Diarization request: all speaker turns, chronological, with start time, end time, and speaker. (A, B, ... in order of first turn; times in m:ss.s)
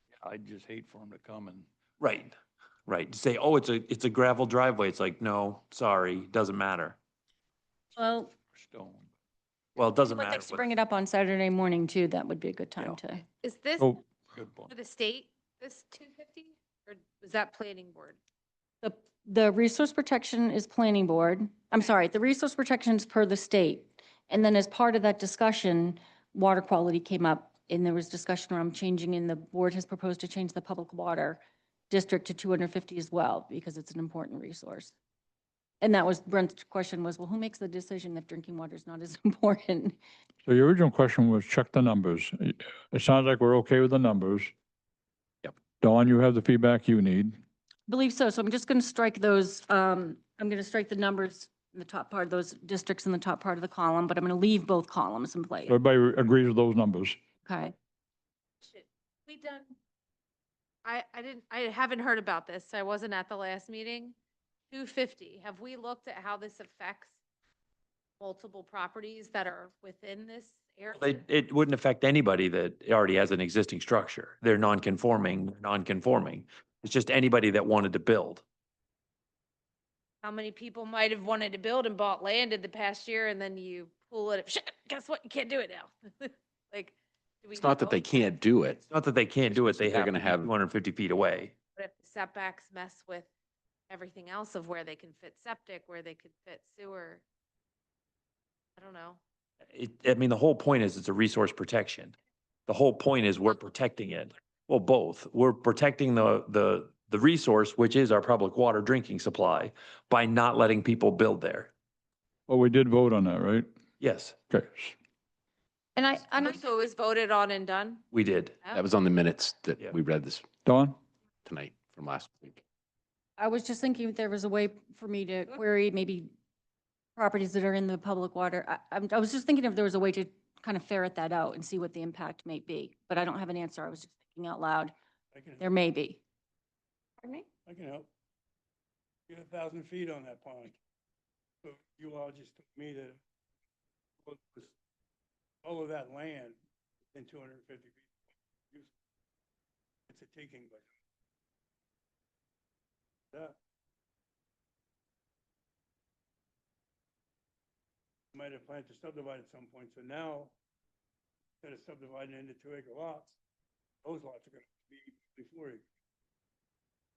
0:00.2-0:01.7 A
0:02.0-0:02.3 B
0:02.9-0:07.0 B
0:08.0-0:08.3 C
0:08.5-0:09.1 A
0:09.8-0:10.7 B
0:10.0-0:13.2 C
0:13.4-0:13.9 D
0:14.3-0:14.7 A
0:14.7-0:18.2 D
0:18.8-0:34.9 C
0:35.8-0:40.0 C
0:40.4-0:44.5 E
0:45.8-0:47.4 E
0:47.9-0:55.8 C
0:55.7-0:57.2 E
0:57.4-0:57.7 C
0:58.6-0:59.7 D
1:00.8-1:04.1 D
1:04.7-1:07.1 D
1:08.2-1:11.2 D
1:11.0-1:18.4 B
1:20.2-1:28.4 D
1:27.5-1:28.8 F
1:28.9-1:31.5 B
1:29.5-1:30.5 F
1:31.8-1:33.3 D
1:33.9-1:37.2 D
1:38.8-1:39.2 D
1:39.7-1:42.1 B
1:42.7-1:51.7 B
1:52.5-1:53.7 E
1:54.0-1:54.3 B
1:54.5-1:54.9 E
1:56.0-1:56.6 C
1:56.4-1:58.0 D
1:58.1-1:58.6 B
1:58.7-2:00.5 F
2:00.6-2:01.0 E
2:01.4-2:02.6 F
2:03.4-2:06.3 C
2:07.2-2:14.9 C
2:15.3-2:15.7 G
2:15.6-2:16.2 C
2:17.6-2:18.1 G
2:19.3-2:20.8 G
2:21.6-2:23.2 G
2:24.2-2:24.7 G
2:25.6-2:26.6 G
2:27.1-2:28.1 G
2:30.1-2:30.9 G
2:38.3-2:40.5 G
2:41.6-2:43.3 G
2:44.0-2:45.8 G